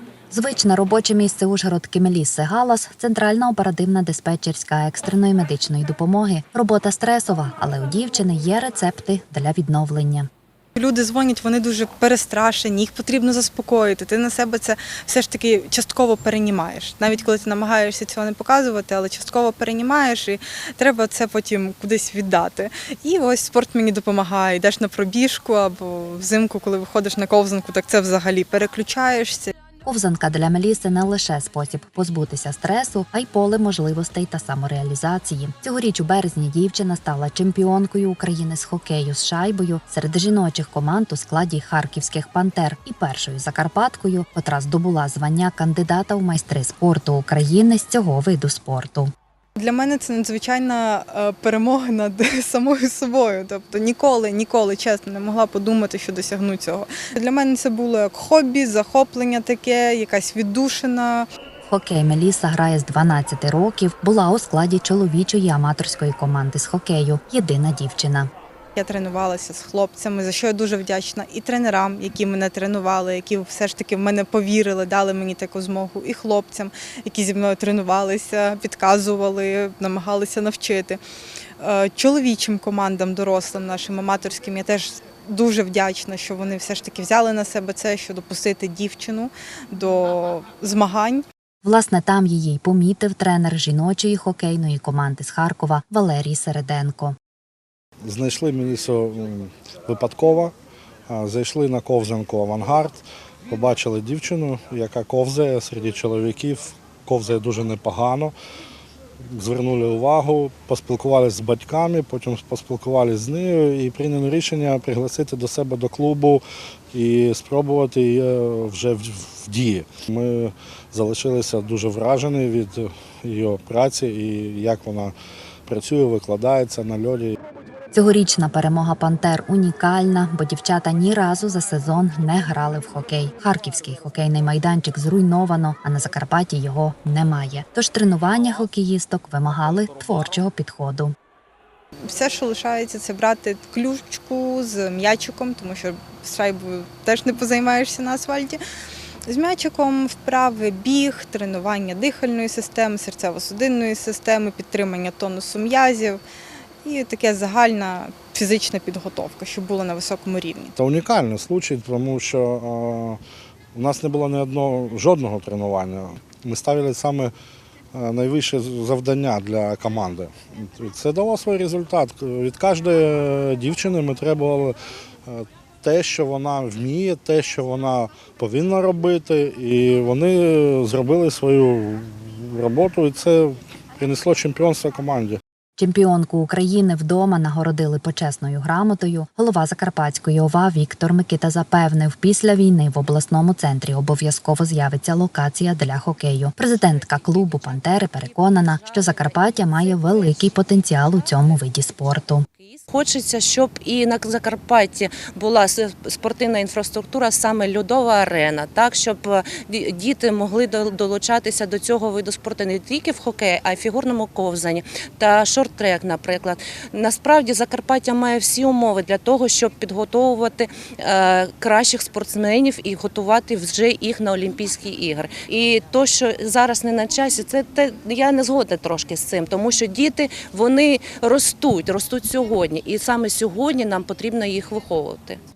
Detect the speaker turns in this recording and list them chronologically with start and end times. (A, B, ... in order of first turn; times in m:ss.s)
0:00.3-0:10.3 A
0:10.7-0:29.5 B
0:29.8-0:49.1 A
0:49.6-1:01.3 B
1:01.7-1:08.3 A
1:08.8-1:21.0 B
1:21.6-1:31.2 B
1:31.6-1:37.2 A
1:38.0-1:40.5 C
1:41.1-1:48.3 C
1:49.3-2:05.1 C
2:05.7-2:07.4 C
2:07.9-2:21.1 A
2:22.1-2:28.6 B
2:29.3-2:36.2 B
2:36.8-2:40.7 B
2:40.8-2:43.2 C
2:43.7-2:47.3 C
2:47.9-3:05.4 C
3:05.8-3:22.4 A
3:16.8-3:55.4 D